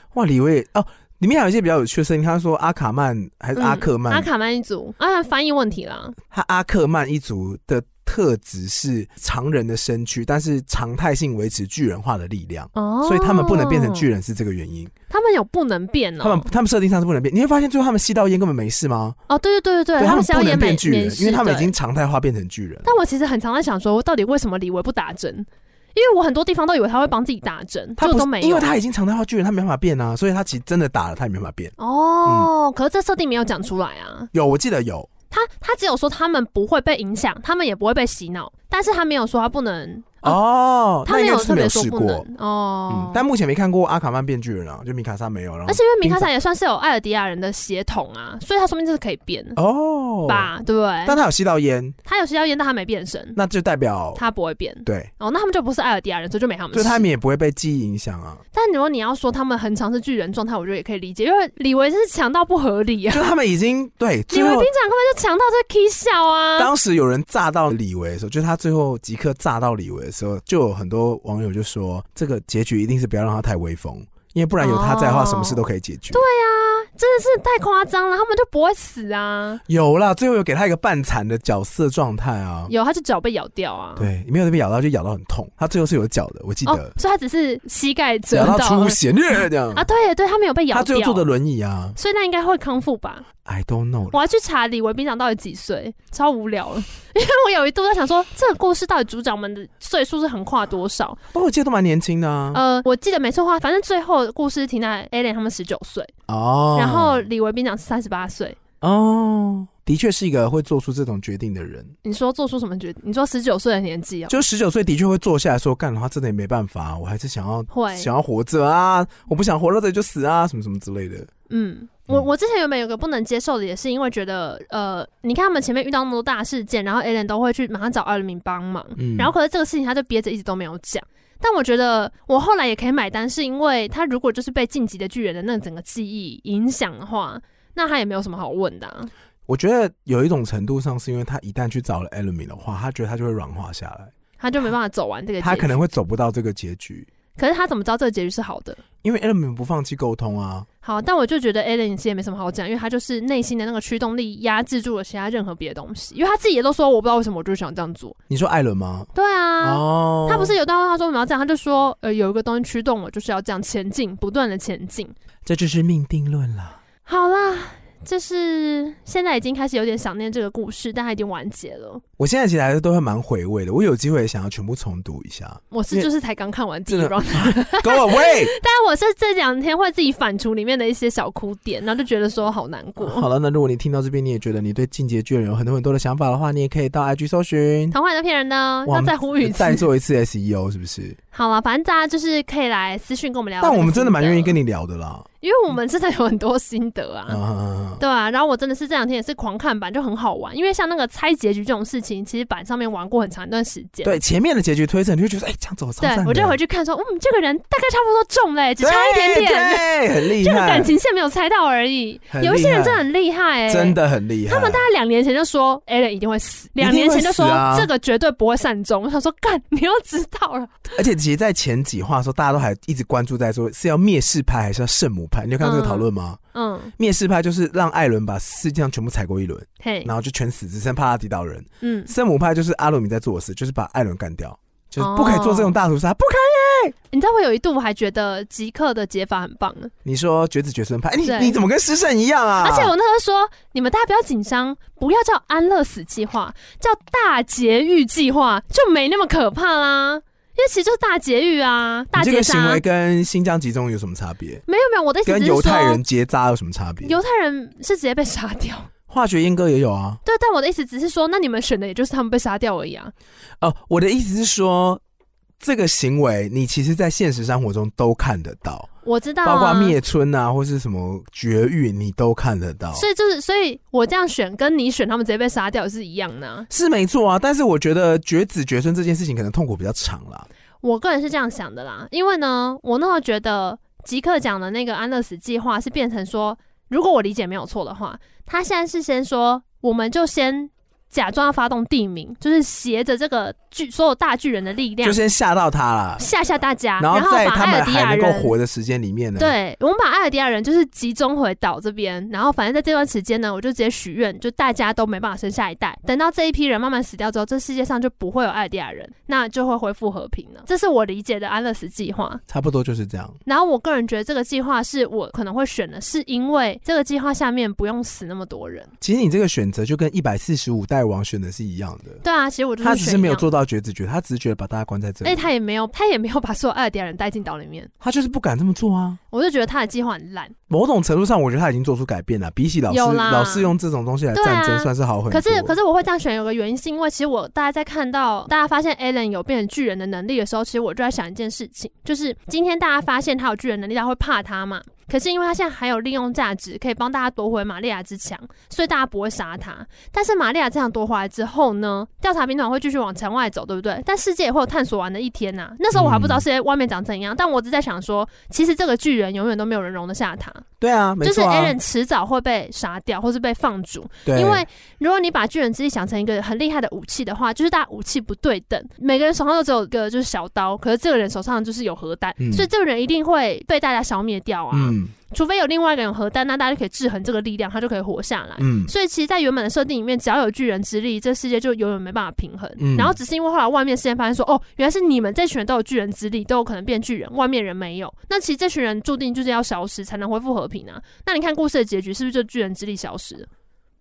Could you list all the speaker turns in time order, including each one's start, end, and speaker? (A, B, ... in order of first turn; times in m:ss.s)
0:00.1-0:04.3 A
0:03.6-0:06.2 B
0:06.3-0:14.9 A
0:12.7-0:14.0 B
0:15.1-0:16.5 B
0:16.2-0:19.2 A
0:19.3-0:21.7 B
0:20.0-0:22.9 A
0:22.8-0:28.7 B
0:28.0-0:31.7 A
0:31.8-0:34.3 B
0:34.3-0:35.1 A
0:35.3-0:40.4 B
0:40.2-0:42.2 A
0:41.0-0:43.2 B
0:42.9-0:46.3 A
0:45.6-0:49.6 B
0:49.6-0:50.5 A
0:50.2-0:51.2 B
0:51.0-0:52.0 A
0:52.0-0:53.4 B
0:53.3-0:54.2 A
0:54.2-0:57.1 B
0:54.8-0:55.1 A
0:56.7-0:58.4 A
0:58.5-1:03.3 B
1:03.1-1:04.7 A
1:04.3-1:06.7 B
1:06.6-1:16.2 A
1:14.6-1:19.6 B
1:19.7-1:22.7 A
1:22.7-1:24.1 B
1:24.0-1:26.9 A
1:26.6-1:29.0 B
1:28.3-1:29.8 A
1:29.7-1:31.3 B
1:30.7-1:32.0 A
1:32.0-1:33.2 B
1:33.4-1:34.2 A
1:34.1-1:41.2 B
1:41.3-1:42.6 A
1:42.5-1:46.1 B
1:46.3-1:47.2 A
1:46.8-1:48.6 B
1:48.8-1:51.9 A
1:52.0-1:54.4 B
1:54.3-2:01.3 A
1:57.7-1:58.1 B
2:01.5-2:19.1 B
2:09.0-2:09.3 A
2:19.5-2:24.1 A
2:24.4-2:25.8 B
2:25.4-2:27.1 A
2:27.3-2:28.8 B
2:29.0-2:30.7 A
2:30.8-2:38.2 B
2:38.3-2:39.1 A
2:39.1-2:45.1 B
2:39.6-2:40.6 A
2:45.4-2:46.8 A
2:47.0-2:52.0 B
2:52.2-2:56.1 A
2:55.7-3:03.3 B
2:56.9-2:58.5 A
3:03.0-3:08.0 A
3:07.9-3:09.8 B
3:08.8-3:11.2 A
3:11.3-3:14.6 B
3:13.6-3:15.2 A
3:15.4-3:17.4 B
3:17.3-3:18.0 A
3:18.0-3:24.2 B
3:24.0-3:26.6 A
3:26.0-3:40.7 B
3:28.8-3:30.9 A
3:32.3-3:33.1 A
3:33.7-3:34.8 A
3:36.8-3:37.9 A
3:40.9-3:46.4 A
3:45.6-3:46.9 B
3:47.0-3:56.9 A
3:49.8-3:50.1 B
3:51.8-3:52.1 B
3:55.0-3:55.7 B
3:57.1-3:59.9 B
4:00.0-4:02.9 A
4:01.2-4:01.6 B
4:02.6-4:12.8 B
4:12.1-4:14.6 A
4:14.7-4:16.0 B
4:15.2-4:17.2 A
4:17.0-4:18.9 B
4:19.1-4:20.2 A
4:20.2-4:23.1 B
4:23.6-4:25.0 A
4:25.6-4:28.9 A
4:29.0-4:30.0 B
4:29.4-4:33.0 A
4:32.9-4:36.7 B
4:36.7-4:40.5 A
4:40.8-4:55.2 B
4:55.0-4:56.2 A
4:56.2-4:58.5 B
4:57.0-4:59.5 A
4:59.4-5:12.4 B
5:12.5-5:13.4 A
5:13.4-5:18.9 B
5:19.0-5:22.2 A
5:22.2-5:23.5 B
5:22.8-5:25.5 A
5:25.2-5:27.9 B
5:28.0-5:29.2 A
5:29.3-5:30.5 B
5:30.7-5:35.8 A
5:32.9-5:33.7 B
5:34.3-6:00.6 B
5:55.9-5:56.4 A
6:00.8-6:01.8 A
6:01.2-6:33.5 B
6:04.2-6:04.6 A
6:12.4-6:12.7 A
6:14.7-6:15.1 A
6:18.6-6:18.9 A
6:22.8-6:23.2 A